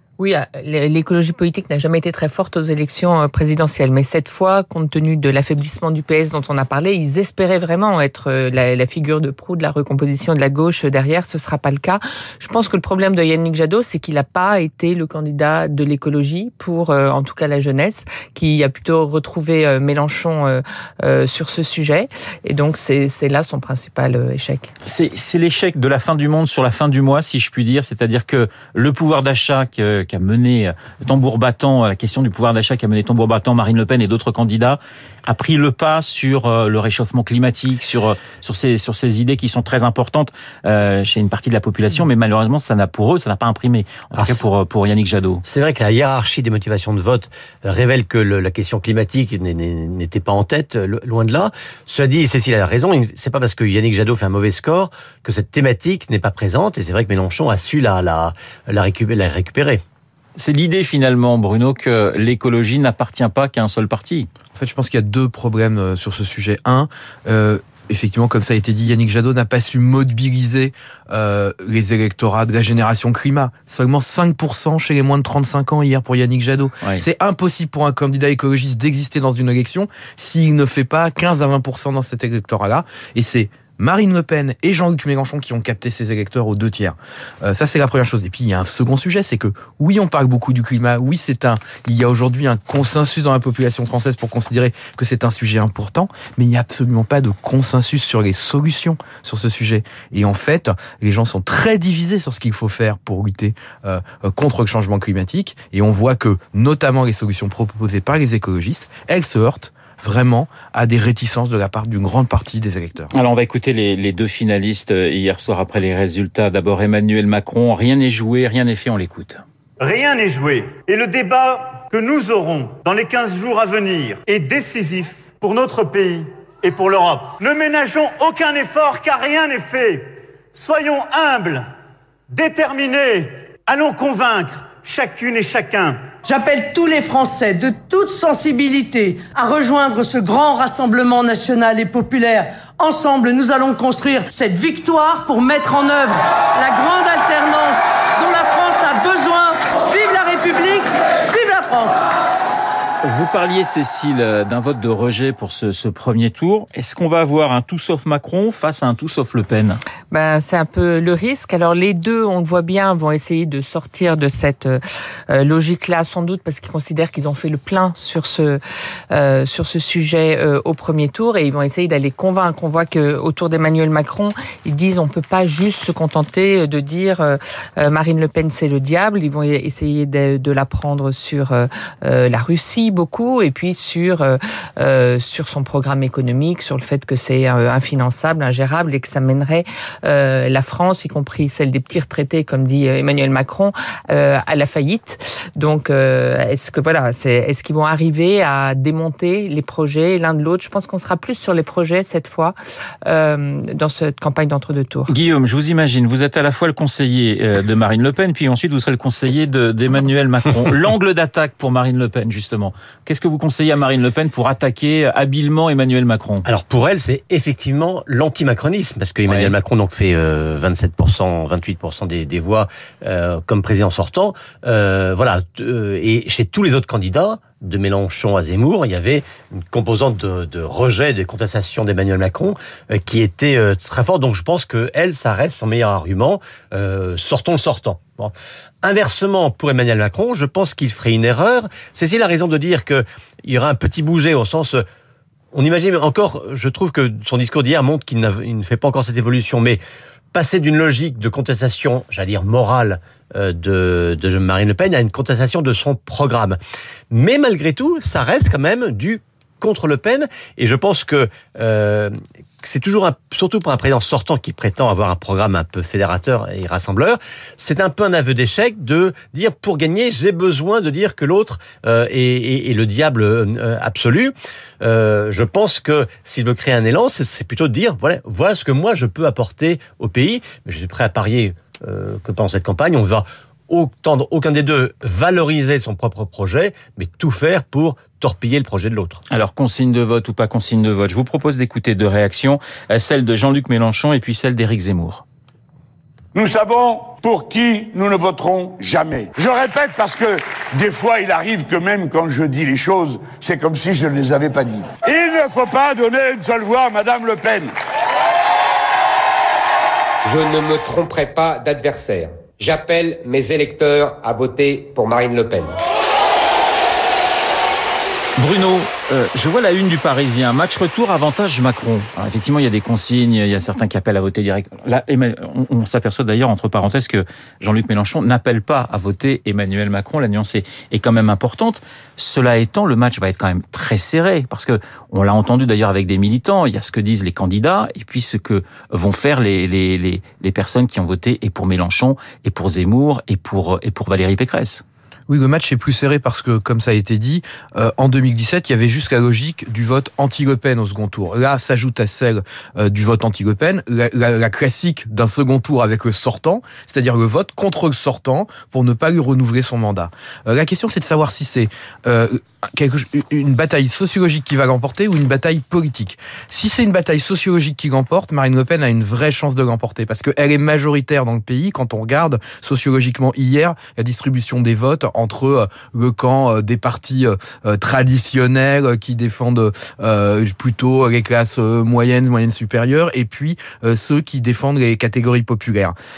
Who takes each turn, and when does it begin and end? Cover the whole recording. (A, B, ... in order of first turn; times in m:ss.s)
0:00.2-0:24.7 A
0:24.8-0:45.4 B
0:45.4-0:59.8 C
1:00.4-1:04.3 B
1:04.5-1:53.1 D
1:53.1-1:59.4 B
1:59.8-2:11.7 E
2:12.3-2:16.0 E
2:16.2-2:32.0 F
2:33.0-2:39.8 B
2:40.1-2:48.6 A
2:49.1-3:25.1 A
3:25.1-3:36.4 B
3:36.4-4:04.8 C
3:39.3-3:39.5 B
4:05.5-4:09.8 C
4:10.3-4:16.6 C
4:17.1-4:49.2 C
4:49.3-4:55.2 B
4:56.3-5:07.7 G
5:10.2-5:15.8 H
5:18.4-5:44.8 B
5:45.3-6:25.9 D